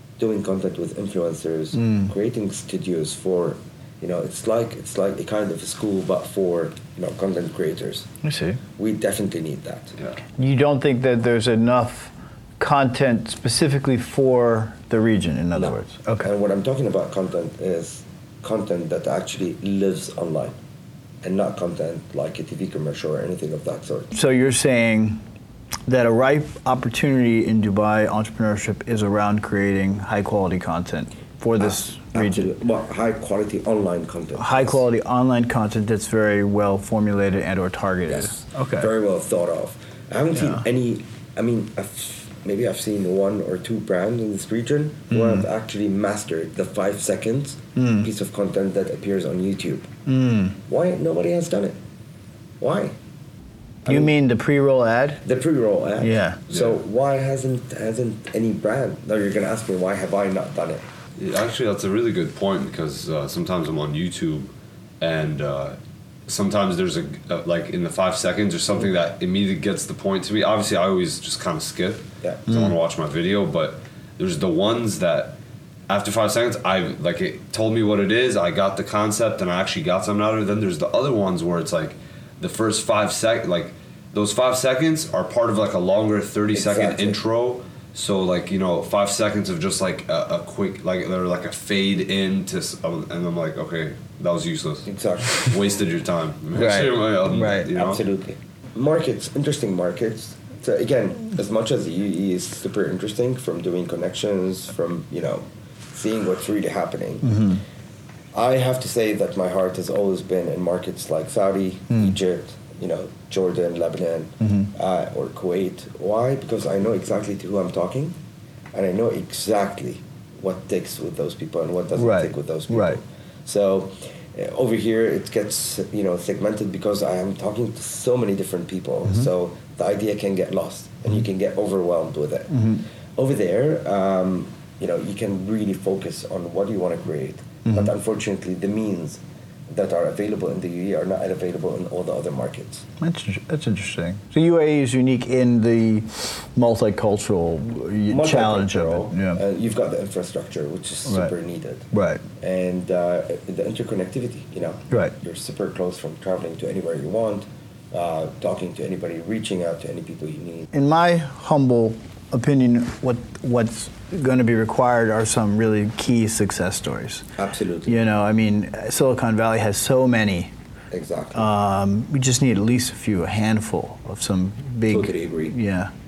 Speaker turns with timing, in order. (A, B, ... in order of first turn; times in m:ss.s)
0:00.2-0:08.1 A
0:01.8-0:02.1 B
0:08.2-0:08.6 B
0:08.8-0:09.9 A
0:10.4-0:16.3 B
0:15.6-0:20.6 A
0:21.2-0:24.1 A
0:24.1-0:25.2 B
0:25.9-0:32.5 B
0:31.6-0:34.8 A
0:34.4-0:38.9 B
0:38.1-0:49.9 A
0:40.4-0:40.6 B
0:45.1-0:45.4 B
0:47.8-0:48.1 B
0:50.0-0:50.6 B
0:50.7-0:51.8 A
0:52.6-0:53.0 A
0:53.8-0:54.1 A
0:53.8-0:55.2 B
0:55.2-1:00.9 A
0:56.0-0:56.4 B
1:01.2-1:15.4 C
1:15.9-1:38.0 C
1:26.5-1:27.2 A
1:34.9-1:35.5 A
1:36.5-1:37.7 B
1:37.4-1:47.5 A
1:47.2-1:47.6 B
1:48.3-1:58.2 A
1:54.4-1:54.7 B
1:58.7-2:22.8 A
2:02.0-2:03.0 B
2:12.5-2:12.8 B
2:23.0-2:29.4 B
2:28.1-2:31.9 A
2:31.1-2:31.3 B
2:31.9-2:32.2 B
2:32.4-2:40.7 A
2:40.7-2:47.2 B
2:47.4-2:47.9 A
2:47.9-2:50.5 B
2:50.9-2:51.5 A
2:51.3-2:55.9 B
2:54.9-2:55.5 A